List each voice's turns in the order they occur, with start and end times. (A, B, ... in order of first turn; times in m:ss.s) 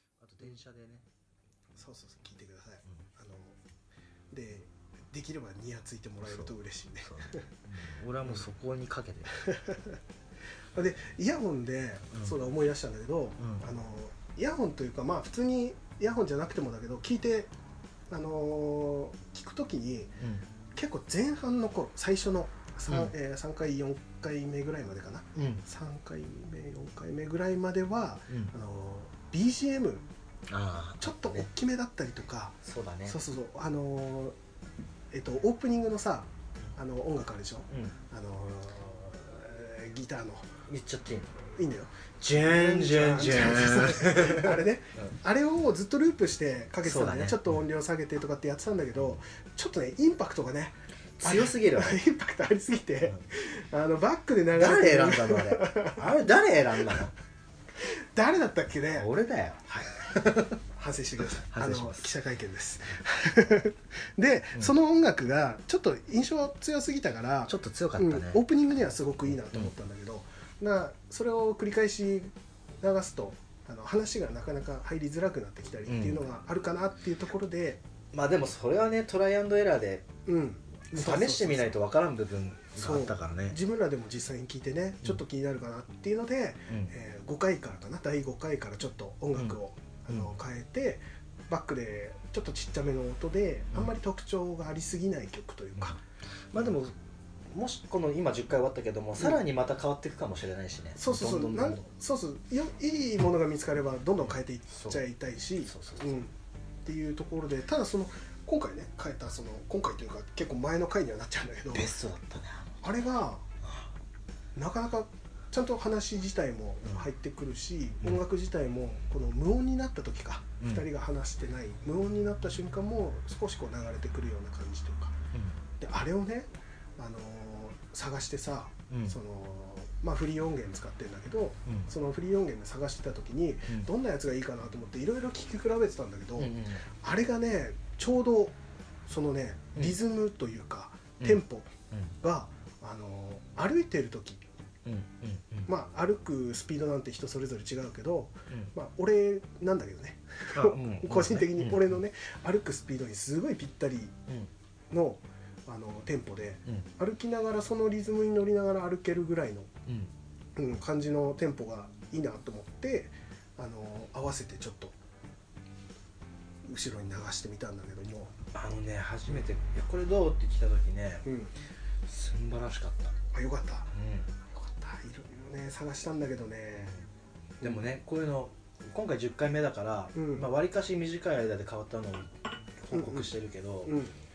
0:00.2-0:01.0 A
0:01.8-0:03.6 B
0:04.3-0:07.5 B
0:06.2-0:06.5 A
0:07.0-0:09.3 A
0:09.4-0:10.0 B
0:10.7-0:17.5 B
0:13.4-0:13.7 A
0:18.1-0:20.2 B
0:20.7-0:30.0 B
0:25.3-0:25.6 A
0:30.5-0:31.5 A
0:31.0-0:34.4 B
0:32.6-0:33.2 A
0:35.1-0:40.6 B
0:37.7-0:37.9 A
0:40.7-0:41.3 A
0:41.4-0:56.1 B
0:42.2-0:45.1 A
0:46.8-0:47.6 A
0:51.2-0:52.0 A
0:54.5-0:57.1 A
0:58.1-0:59.1 B
0:59.0-1:00.6 A
0:59.6-1:00.1 B
1:00.7-1:17.8 B
1:01.4-1:02.1 A
1:07.5-1:08.4 A
1:15.8-1:16.2 A
1:18.1-1:20.1 A
1:20.2-1:21.8 B
1:20.9-1:23.6 A
1:22.8-1:36.0 B
1:30.1-1:30.3 A
1:36.5-1:36.9 A
1:37.5-1:41.8 A
1:41.0-1:46.3 B
1:44.2-1:45.0 A
1:45.6-1:46.2 A
1:46.8-1:51.9 B
1:51.7-1:52.8 A
1:52.8-1:53.4 B
1:53.6-1:53.9 A
1:54.5-2:05.2 B
2:00.6-2:00.8 A
2:05.3-2:05.6 A
2:05.8-2:18.6 B
2:08.9-2:09.2 A
2:16.4-2:16.8 A
2:19.1-2:24.4 B
2:21.2-2:22.1 A
2:24.8-2:25.7 A
2:25.6-2:34.1 B
2:30.5-2:32.0 A
2:34.9-2:39.7 B
2:39.8-2:40.1 A
2:40.6-2:45.0 B
2:46.6-2:48.3 B
2:48.5-2:51.2 A
2:51.2-2:51.5 B
2:52.0-2:53.1 A
2:53.3-2:53.9 B
2:53.9-2:54.3 A
2:54.4-2:57.0 B
2:56.8-2:57.0 A
2:57.6-3:04.0 A
3:00.1-3:00.5 B
3:02.9-3:03.3 B
3:03.8-3:04.1 B